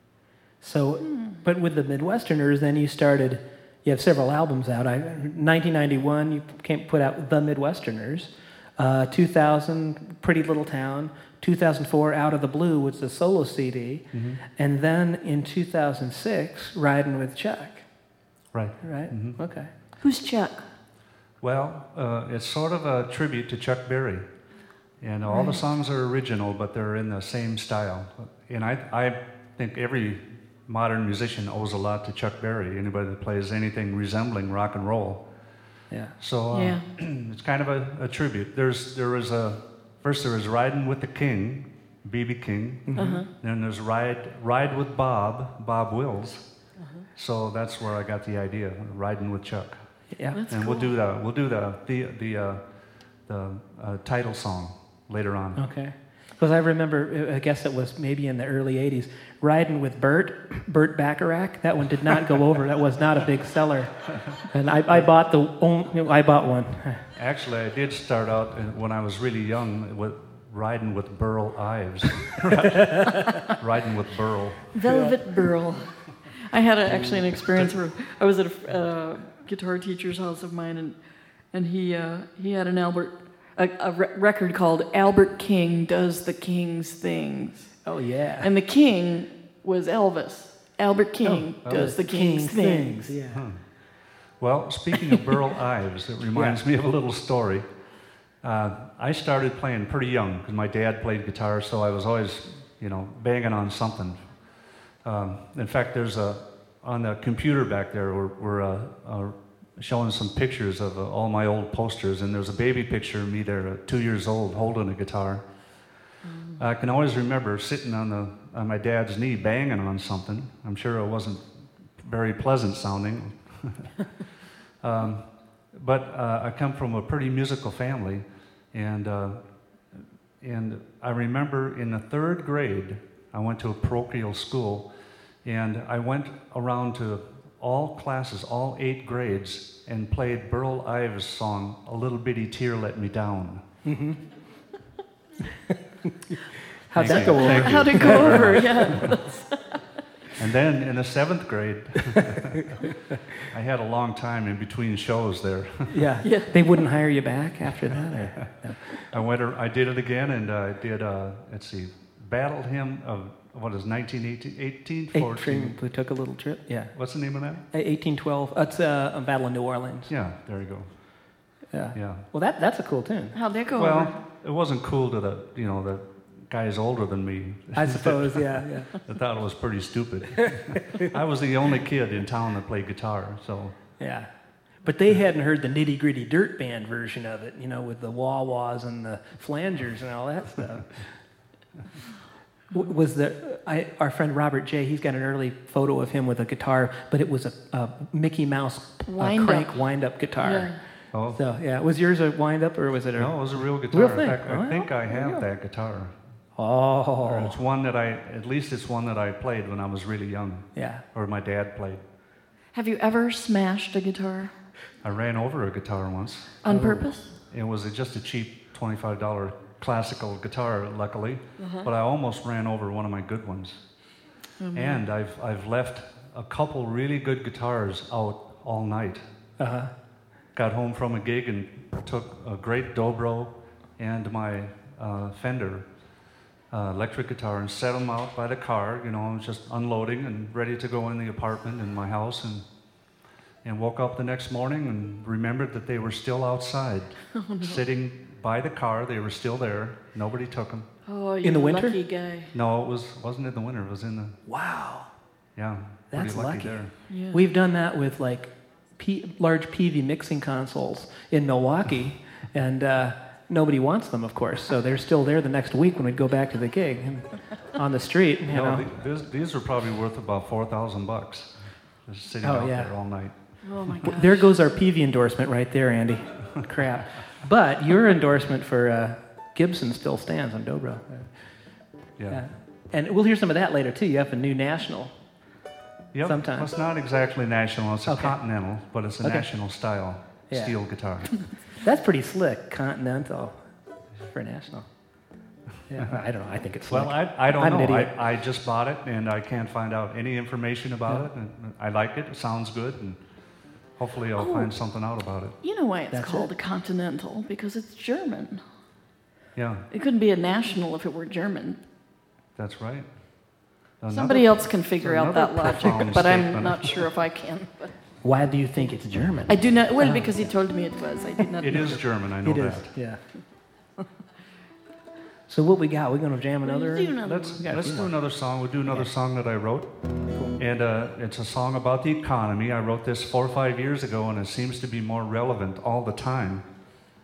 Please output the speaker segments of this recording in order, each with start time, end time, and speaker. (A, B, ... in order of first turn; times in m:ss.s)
0:00.6-0:17.9 A
0:14.1-0:14.4 B
0:18.5-0:19.4 B
0:18.8-0:19.7 A
0:20.0-0:20.7 C
0:21.4-0:24.2 B
0:25.0-0:35.2 B
0:25.3-0:25.6 C
0:35.9-0:36.2 A
0:36.2-0:46.5 B
0:36.5-0:36.9 C
0:42.9-0:43.2 A
0:43.0-0:43.3 C
0:47.1-0:49.8 B
0:50.1-0:50.4 A
0:50.3-0:51.0 C
0:50.5-0:52.6 B
0:53.3-0:55.6 B
0:55.6-1:07.0 A
1:07.2-1:14.7 B
1:12.7-1:13.1 A
1:14.7-1:16.0 C
1:14.9-1:15.1 A
1:16.5-1:21.0 C
1:16.9-1:17.7 B
1:21.5-1:27.9 C
1:27.8-1:28.5 A
1:28.4-1:33.1 C
1:31.2-1:33.4 A
1:31.6-1:31.9 B
1:33.3-1:33.6 B
1:34.4-1:37.7 B
1:36.3-1:36.6 A
1:38.4-1:44.3 B
1:45.0-1:55.5 B
1:56.2-1:56.6 C
1:56.6-2:04.1 B
2:04.8-2:09.4 B
2:10.4-2:14.9 B
2:15.4-2:23.6 B
2:23.8-2:24.2 A
2:26.3-2:29.1 A
2:26.9-2:29.2 B
2:27.0-2:29.8 C
2:30.4-2:36.0 B
2:32.1-2:32.6 A
2:35.9-2:39.1 A
2:36.2-2:36.8 C
2:38.4-2:45.8 B
2:45.1-2:46.9 A
2:46.9-2:47.6 B
2:47.7-2:50.1 A
2:50.1-2:50.9 B
2:51.7-2:53.4 A
2:51.9-2:52.2 B
2:53.3-2:54.2 C
2:53.8-3:03.8 B
2:57.8-2:58.9 A
3:00.4-3:01.0 A
3:04.0-3:11.2 A
3:12.7-3:20.8 A
3:19.1-3:19.8 C
3:20.4-3:20.8 C
3:21.1-3:21.4 B
3:21.3-3:25.4 A
3:23.2-3:26.2 B
3:26.6-3:27.6 A
3:27.2-3:32.0 B
3:30.8-3:31.0 A
3:32.7-3:34.5 C
3:35.0-3:43.9 B
3:36.6-3:37.3 C
3:36.7-3:37.1 A
3:41.6-3:41.9 C
3:44.6-3:45.0 C
3:44.7-3:49.2 B
3:49.6-3:49.9 A
3:50.5-3:55.9 B
3:56.7-4:02.7 B
4:03.6-4:10.9 B
4:07.4-4:07.8 C
4:11.1-4:12.5 C
4:11.4-4:12.0 A
4:12.5-4:14.4 B
4:14.5-4:15.1 A
4:15.6-4:16.9 B
4:16.1-4:28.9 A
4:17.1-4:17.4 C
4:28.5-4:31.5 B
4:32.0-4:34.0 B
4:32.4-4:32.9 A
4:33.6-4:34.5 C
4:34.0-4:41.3 A
4:42.2-4:42.4 B
4:42.3-4:45.2 A
4:46.1-4:51.4 B
4:46.2-4:46.7 A
4:48.1-4:48.4 A
4:50.5-4:50.8 A
4:51.8-4:53.6 A
4:54.2-4:54.9 A
4:55.9-4:58.1 A
4:56.0-4:56.2 B
4:56.9-5:03.2 B
5:04.0-5:05.6 B
5:04.4-5:04.7 C
5:05.6-5:08.6 C
5:06.1-5:06.5 A
5:09.6-5:09.9 B
5:09.9-5:11.8 C
5:12.6-5:13.2 B
5:14.0-5:17.0 B
5:14.1-5:18.1 C
5:18.2-5:20.5 A
5:19.5-5:22.0 C
5:21.6-5:23.0 B
5:22.4-5:23.2 A
5:25.5-5:28.1 A
5:26.6-5:27.8 C
5:27.2-5:29.9 B
5:30.6-5:36.6 B